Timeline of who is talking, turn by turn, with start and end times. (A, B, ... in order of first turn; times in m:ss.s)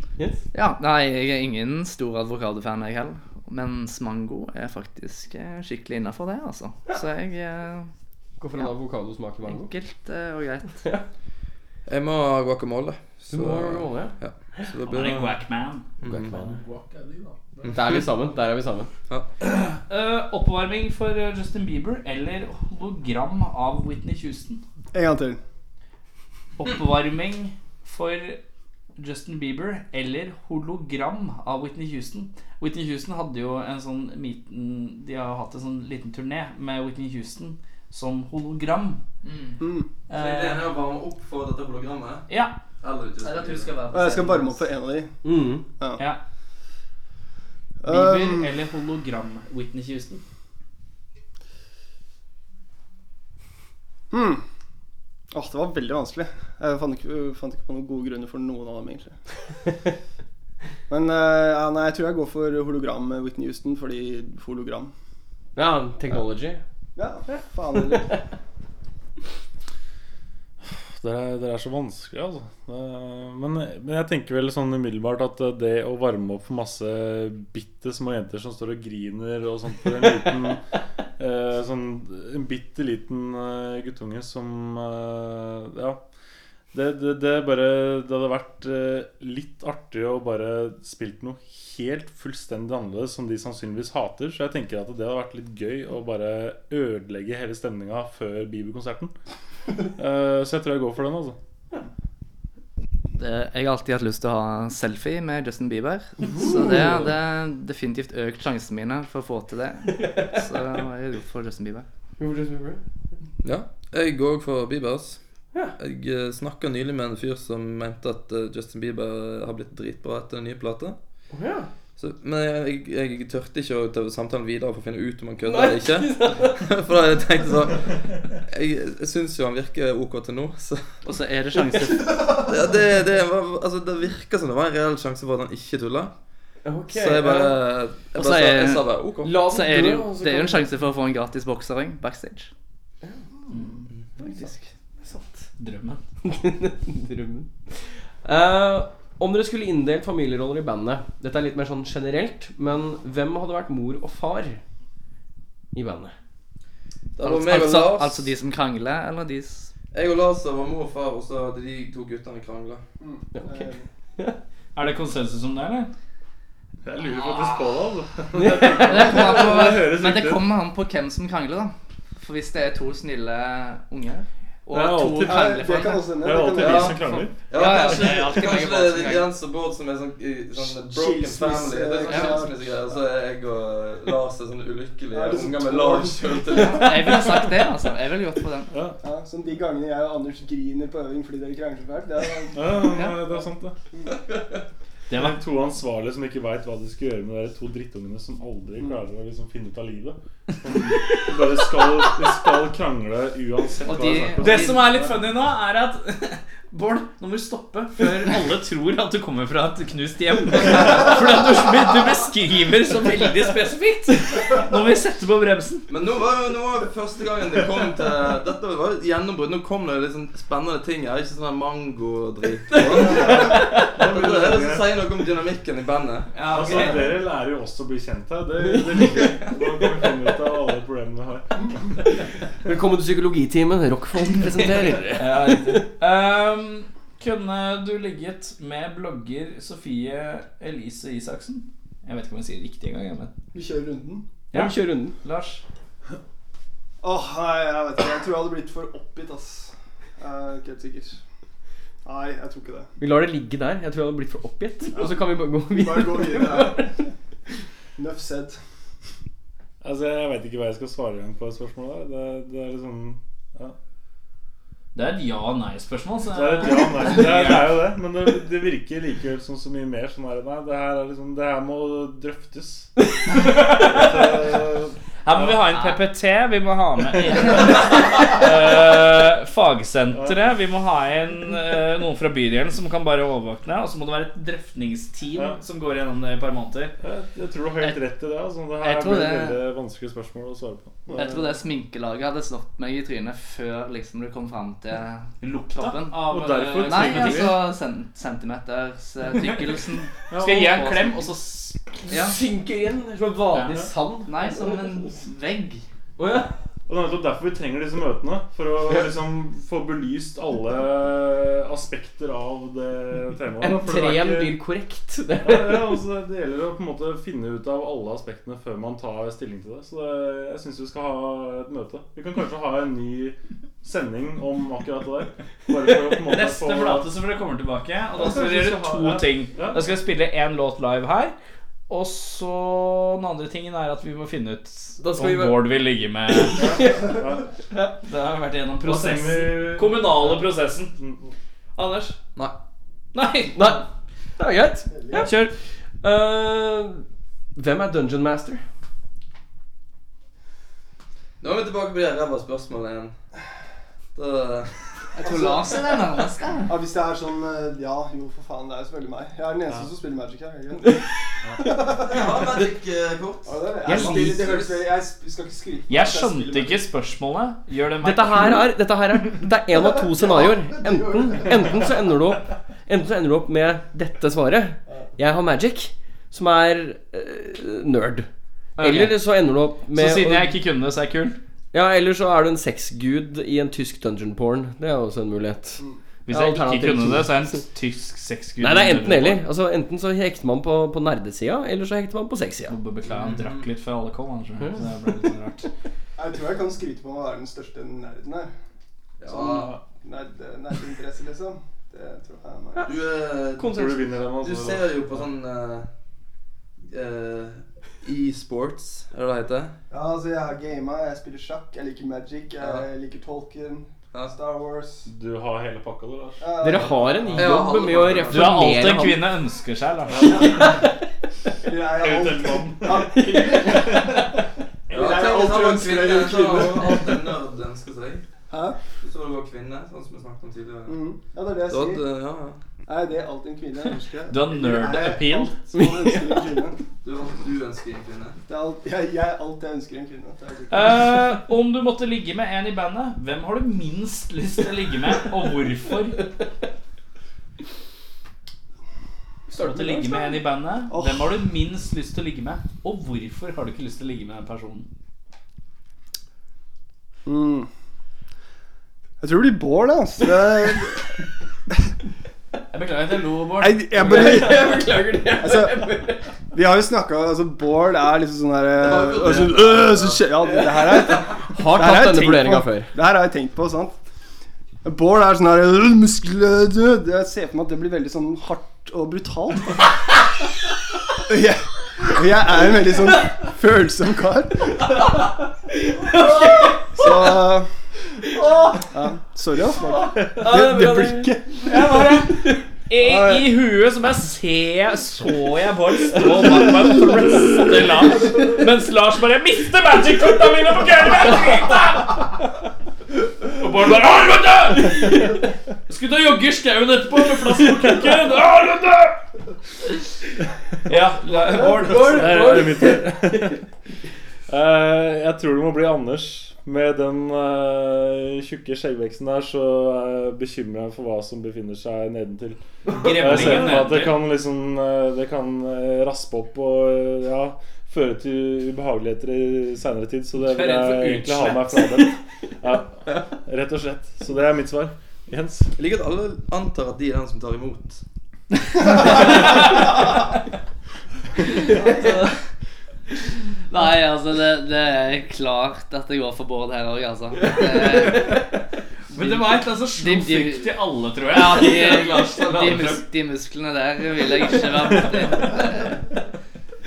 0:00.5-0:07.9 A
0:08.4-0:09.7 B
0:09.4-0:10.8 A
0:11.9-0:15.4 C
0:13.3-0:14.2 B
0:14.8-0:15.8 D
0:16.0-0:16.4 C
0:16.0-0:16.6 B
0:16.2-0:17.7 E
0:17.7-0:18.9 B
0:19.9-0:24.6 D
0:24.9-0:25.4 F
0:26.6-0:28.4 D
0:29.0-0:39.0 D
0:39.2-0:39.6 A
0:39.6-0:39.9 F
0:40.1-0:40.6 D
0:40.1-0:42.3 C
0:42.3-0:42.6 D
0:42.8-0:43.8 C
0:43.2-0:44.6 A
0:43.9-0:45.1 F
0:45.2-0:45.6 B
0:47.8-0:48.5 F
0:47.9-0:50.2 D
0:54.1-0:54.4 F
0:55.3-0:59.2 F
1:00.9-1:04.9 F
1:05.6-1:06.6 B
1:07.0-1:08.2 F
1:07.3-1:08.2 B
1:10.6-1:20.6 E
1:21.2-1:26.0 E
1:26.7-1:39.1 E
1:40.0-1:41.4 E
1:43.1-1:51.8 A
1:46.3-1:47.0 B
1:52.2-1:52.8 B
1:53.4-1:55.2 C
1:55.8-2:01.0 C
2:01.3-2:01.7 B
2:02.0-2:10.9 C
2:05.4-2:06.7 B
2:11.0-2:12.5 A
2:12.3-2:16.1 C
2:16.6-2:17.6 B
2:16.9-2:19.4 C
2:18.1-2:22.5 A
2:19.2-2:20.6 B
2:24.2-2:25.4 B
2:24.3-2:24.6 A
2:25.6-2:26.0 D
2:26.2-2:34.6 B
2:35.7-2:36.1 B
2:37.2-2:38.3 C
2:37.2-2:39.7 A
2:39.9-2:42.8 C
2:43.0-2:43.9 F
2:43.3-2:44.4 B
2:44.8-2:45.9 D
2:46.8-2:50.5 E
2:47.1-2:47.7 A
2:48.4-2:48.7 B
2:48.4-2:56.2 A
2:54.7-2:55.6 E
2:55.2-2:57.0 F
2:56.2-2:57.5 E
2:56.6-3:07.2 C
2:57.0-2:59.3 A
3:00.6-3:02.7 F
3:02.0-3:02.5 A
3:05.1-3:06.8 F
3:06.5-3:08.7 A
3:08.7-3:09.0 E
3:09.0-3:12.7 F
3:12.5-3:13.8 E
3:12.8-3:13.2 A
3:15.1-3:15.4 D
3:15.1-3:25.0 E
3:23.8-3:25.1 A
3:24.4-3:35.8 D
3:35.9-3:46.3 C
3:42.8-3:44.9 E
3:46.4-3:47.0 D
3:46.4-3:47.1 A
3:46.5-3:52.0 E
3:52.6-3:55.8 B
3:55.2-4:03.3 D
4:03.5-4:04.3 F
4:04.5-4:05.2 B
4:04.5-4:05.6 D
4:07.0-4:11.2 F
4:12.0-4:12.9 F
4:13.0-4:17.0 B
4:14.9-4:16.8 F
4:18.0-4:18.6 F
4:19.8-4:23.7 E
4:24.9-4:27.8 D
4:26.3-4:32.9 E
4:33.4-4:34.1 D
4:33.4-4:35.6 E
4:35.2-4:46.9 D
4:35.7-4:36.0 A
4:40.1-4:40.4 E
4:47.0-4:51.0 E
4:48.8-4:49.6 A
4:51.1-4:51.4 F
4:51.1-4:56.2 A
4:55.4-4:57.6 D
4:56.2-4:57.6 E
4:56.8-5:01.1 A
5:00.3-5:00.8 E
5:00.3-5:02.1 D
5:02.1-5:05.1 B
5:02.1-5:02.4 A
5:04.2-5:05.8 A
5:06.2-5:06.5 B
5:06.9-5:14.6 E
5:13.6-5:16.0 B
5:15.4-5:27.1 E
5:26.2-5:31.3 D
5:28.1-5:29.9 E
5:31.9-5:36.8 D
5:35.0-5:35.6 B
5:36.6-5:37.2 B
5:36.6-5:37.4 E
5:38.0-5:40.9 D
5:38.8-5:41.3 E
5:41.8-5:42.2 D
5:43.1-5:43.8 D
5:43.5-5:43.8 B
5:44.4-5:47.0 B
5:44.9-5:45.2 F
5:45.1-5:45.5 D
5:47.5-5:48.6 B
5:51.4-5:53.1 C
5:54.1-5:54.7 C
5:55.2-5:56.8 A
5:55.2-5:55.9 F
5:56.7-6:01.0 F
6:01.4-6:01.7 E
6:01.6-6:02.4 F
6:02.0-6:04.8 C
6:03.4-6:06.8 F
6:03.8-6:04.6 B
6:05.9-6:08.7 D
6:08.0-6:20.6 B
6:09.7-6:11.9 F
6:18.8-6:19.2 D
6:19.9-6:21.4 D
6:21.7-6:27.4 B
6:26.3-6:29.4 D
6:28.6-6:32.7 B
6:32.7-6:35.7 D
6:33.1-6:33.6 C
6:36.2-6:38.5 F
6:39.2-6:39.8 C
6:39.3-6:39.8 E
6:40.0-6:43.0 F
6:42.8-6:43.8 C
6:43.6-6:44.1 B
6:43.6-6:45.3 E
6:44.4-6:45.9 C
6:46.9-6:49.7 C
6:49.9-6:55.1 F
6:52.6-6:52.9 C
6:55.0-6:56.6 E
6:56.4-6:57.2 F
6:56.6-6:59.3 B
6:57.2-6:57.6 E
6:57.3-6:58.8 C
6:58.3-7:00.5 D
7:00.1-7:00.9 E
7:01.6-7:04.3 F
7:01.9-7:03.9 E
7:03.1-7:04.1 B
7:04.9-7:07.2 F
7:04.9-7:08.2 C
7:08.5-7:08.8 F
7:09.0-7:11.0 C
7:10.9-7:12.0 F
7:11.7-7:12.6 C
7:12.8-7:16.8 F
7:14.3-7:15.5 D
7:15.7-7:16.5 B
7:17.0-7:18.4 C
7:18.5-7:21.1 F
7:20.7-7:26.2 D
7:29.5-7:30.4 B
7:29.6-7:34.9 D
7:30.9-7:31.2 F
7:37.2-7:37.7 F
7:39.2-7:41.1 F
7:42.7-7:44.5 D
7:43.6-7:46.0 F
7:43.9-7:46.2 B
7:46.5-7:54.0 F
7:48.8-7:50.6 C
7:50.4-7:52.9 B
7:54.8-7:59.9 F
8:01.3-8:05.0 F
8:06.3-8:07.2 B
8:06.9-8:07.7 F
8:08.8-8:12.1 F
8:10.4-8:11.4 B
8:11.6-8:22.3 D
8:13.0-8:13.4 F
8:23.6-8:29.2 D
8:30.9-8:32.9 D
8:31.5-8:33.6 B
8:31.9-8:33.6 E
8:34.5-8:55.7 E
8:42.9-8:44.2 D
8:43.1-8:43.6 B
8:50.4-8:52.0 D
8:55.8-8:58.0 C
9:03.7-9:08.4 A
9:09.1-9:13.0 D
9:09.1-9:16.0 A